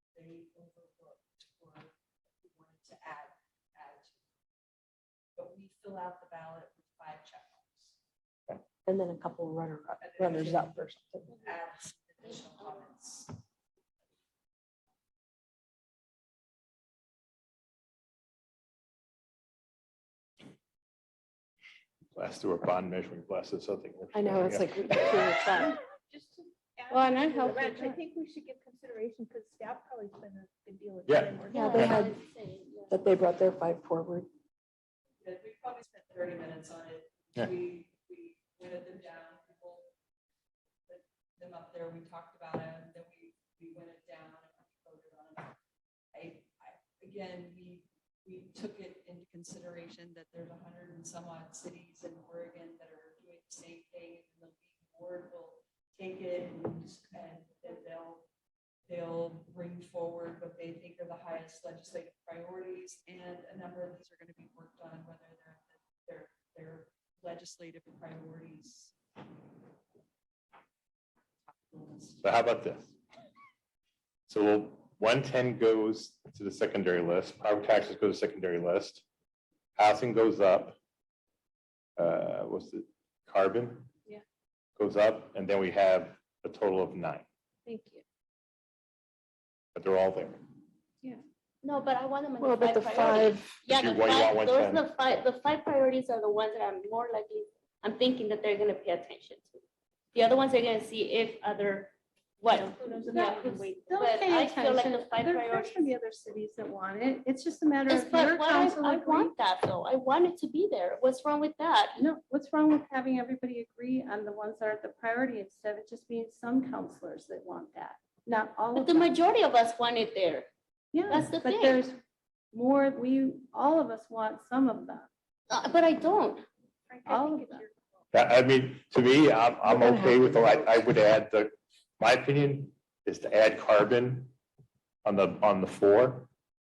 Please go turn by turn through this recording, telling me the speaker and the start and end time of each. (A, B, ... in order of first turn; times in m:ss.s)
0:00.1-0:04.1 A
0:05.4-0:08.0 A
0:08.8-0:11.4 B
0:10.0-0:13.4 A
0:22.2-0:25.2 C
0:24.1-0:25.8 B
0:25.6-0:32.0 D
0:26.9-0:28.0 E
0:31.1-0:31.5 C
0:31.5-0:32.9 F
0:31.7-0:32.2 B
0:32.9-0:34.3 B
0:35.2-0:39.9 A
0:40.9-0:45.6 A
0:46.1-0:58.3 A
0:58.9-1:08.9 A
1:11.4-1:12.2 A
1:12.2-1:12.9 C
1:14.3-1:19.0 C
1:19.8-1:20.8 C
1:22.0-1:23.9 C
1:24.8-1:27.3 C
1:27.7-1:28.0 E
1:29.8-1:30.4 C
1:31.6-1:39.6 F
1:32.4-1:33.6 B
1:33.7-1:34.9 C
1:40.1-1:45.9 F
1:42.8-1:49.3 E
1:42.9-1:43.9 D
1:47.9-1:52.1 F
1:52.0-1:59.1 E
1:58.8-2:00.5 F
2:00.9-2:02.0 E
2:01.1-2:01.8 F
2:02.5-2:05.1 E
2:05.5-2:06.4 F
2:06.9-2:08.0 D
2:07.1-2:07.6 E
2:08.1-2:14.3 C
2:09.7-2:10.7 B
2:15.0-2:16.3 C